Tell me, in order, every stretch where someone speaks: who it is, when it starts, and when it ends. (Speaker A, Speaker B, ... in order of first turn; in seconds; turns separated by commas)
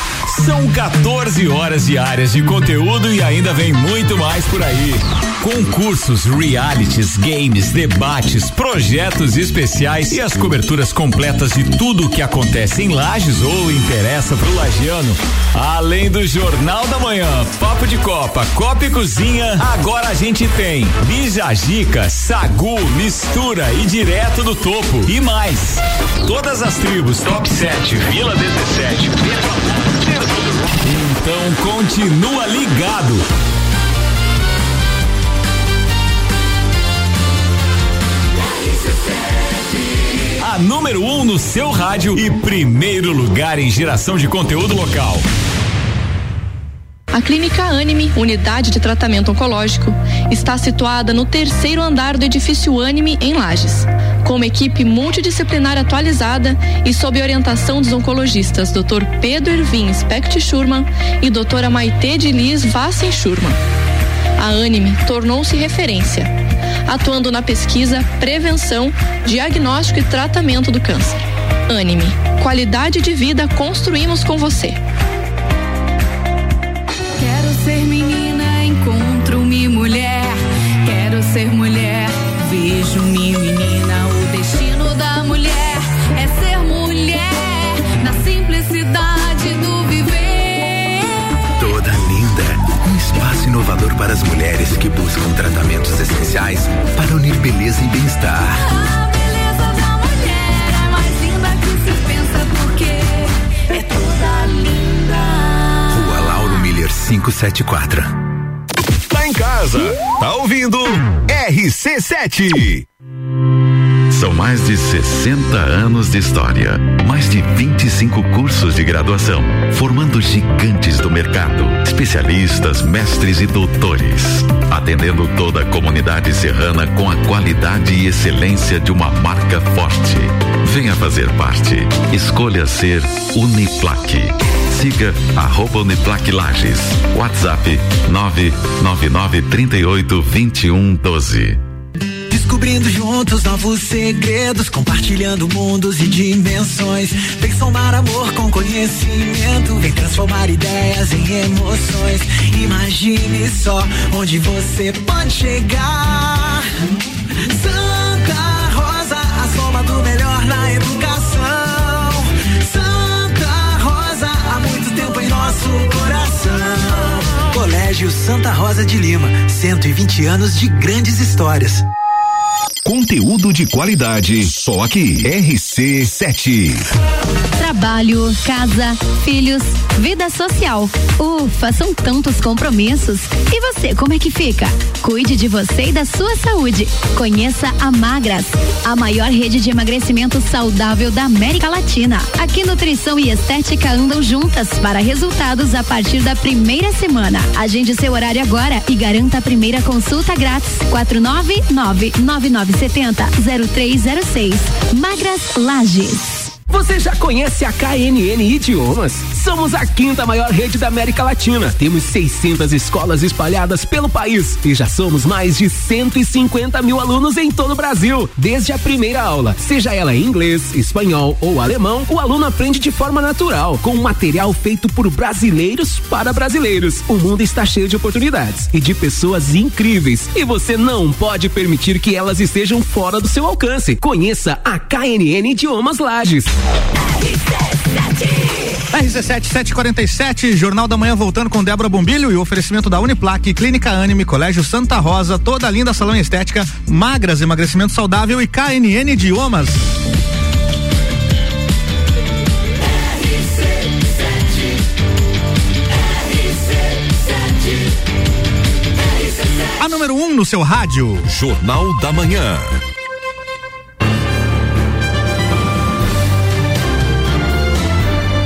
Speaker A: 0.3-33.2, Speaker A: 40.4-45.2, Speaker B: 47.1-63.6, Speaker B: 64.4-66.3, Speaker B: 66.9-74.8, Speaker C: 77.2-91.2, Speaker D: 91.6-98.6, Speaker C: 98.6-105.8, Speaker D: 105.9-108.2, Speaker E: 109.1-112.8, Speaker F: 114.1-141.6, Speaker G: 142.3-156.7, Speaker G: 157.5-171.8, Speaker E: 172.8-176.8, Speaker H: 177.6-206.3, Speaker I: 206.7-236.5, Speaker J: 238.9-250.0, Speaker J: 259.8-261.3, Speaker E: 261.3-262.8